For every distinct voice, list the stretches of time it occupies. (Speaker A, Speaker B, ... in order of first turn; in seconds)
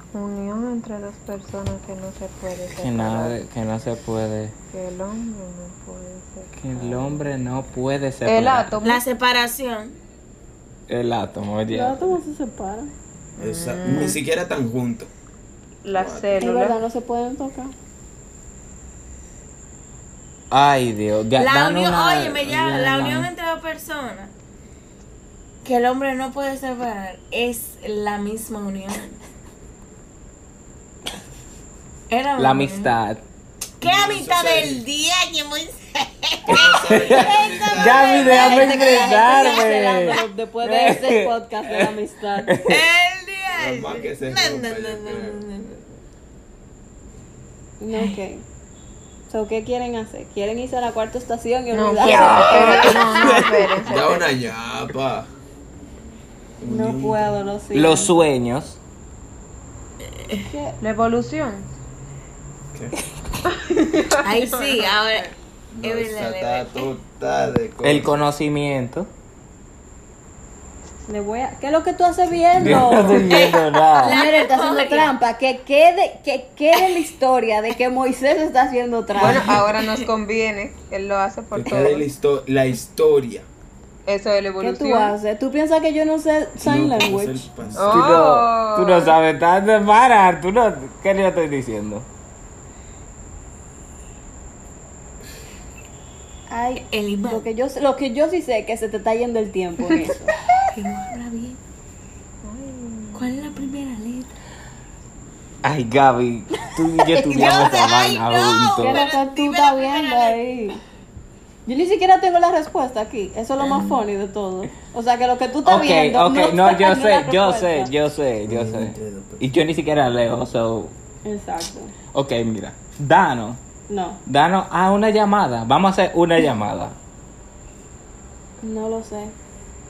Speaker A: 0.1-3.4, 4.7-7.2, 8.2-9.0, 13.4-14.2, 15.8-16.8, 51.7-54.3, 60.8-61.7, 63.5-65.3, 79.2-82.1, 84.1-85.2, 87.7-89.2, 102.4-103.3
Speaker B: 2.7-4.5, 6.5-8.8, 10.9-12.2, 20.5-23.3, 32.4-33.2, 36.9-41.4, 42.4-42.8, 52.0-53.3, 57.7-58.8, 67.8-69.1, 72.6-74.2, 87.8-92.1, 105.6-109.0, 115.7-120.9, 122.1-123.6, 124.3-127.0
Speaker C: 8.8-10.0, 21.4-24.3, 25.6-29.2, 32.1-32.9, 33.8-40.2, 42.7-46.0, 64.2-66.9, 73.3-75.1, 79.3-80.0, 96.8-97.5, 100.6-101.6, 103.1-104.3, 107.1-110.4, 113.6-114.0
Speaker D: 11.7-12.9, 16.4-17.7, 38.4-42.6, 47.8-48.4, 49.3-53.1, 56.6-58.2, 60.4-60.8, 71.1-73.5, 74.0-79.6, 84.6-87.5, 96.5-100.3, 108.8-110.8, 111.7-117.9, 121.2-122.0, 123.9-124.2, 128.6-129.3
Speaker E: 13.4-15.1, 15.9-16.5, 33.8-34.8, 36.5-38.8, 43.5-45.4, 53.1-55.3, 56.6-57.4, 62.7-63.0, 65.7-68.2, 72.6-72.9, 81.5-83.5, 86.6-88.3, 118.5-119.5